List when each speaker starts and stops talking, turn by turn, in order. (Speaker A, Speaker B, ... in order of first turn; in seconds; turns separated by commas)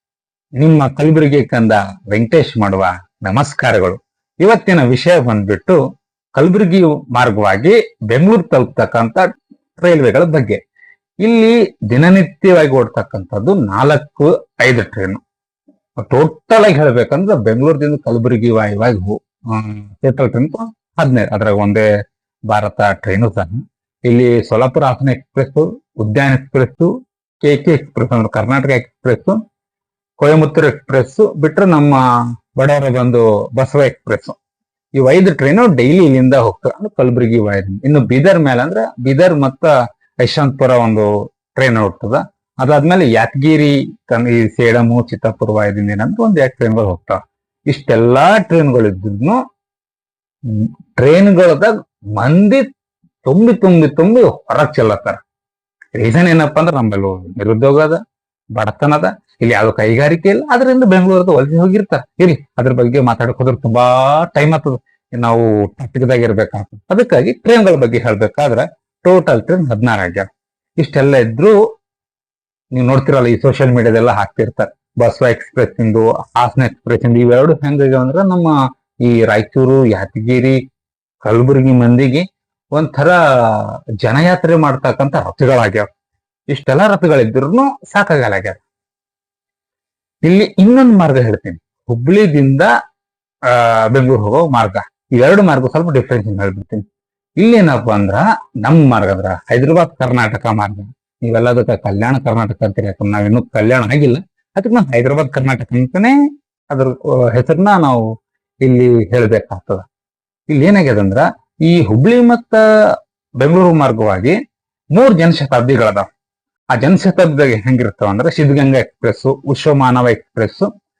Speaker A: 0.6-5.8, Speaker A: 6.3-9.2, Speaker A: 9.8-10.6, Speaker A: 11.2-15.2, Speaker A: 16.0-21.8, Speaker A: 22.5-26.9, Speaker A: 27.4-29.4, Speaker A: 30.2-32.0, Speaker A: 32.6-34.4, Speaker A: 35.0-39.7, Speaker A: 40.2-49.4, Speaker A: 50.5-52.6, Speaker A: 53.2-55.2, Speaker A: 56.0-58.0, Speaker A: 58.5-70.3, Speaker A: 70.8-71.5, Speaker A: 72.7-78.5, Speaker A: 79.0-80.5, Speaker A: 81.2-85.9, Speaker A: 86.5-88.6, Speaker A: 90.2-92.7, Speaker A: 93.5-96.8, Speaker A: 97.4-106.1, Speaker A: 106.7-108.0, Speaker A: 108.6-109.8, Speaker A: 110.5-112.6, Speaker A: 113.4-114.3, Speaker A: 114.9-116.1, Speaker A: 116.7-120.7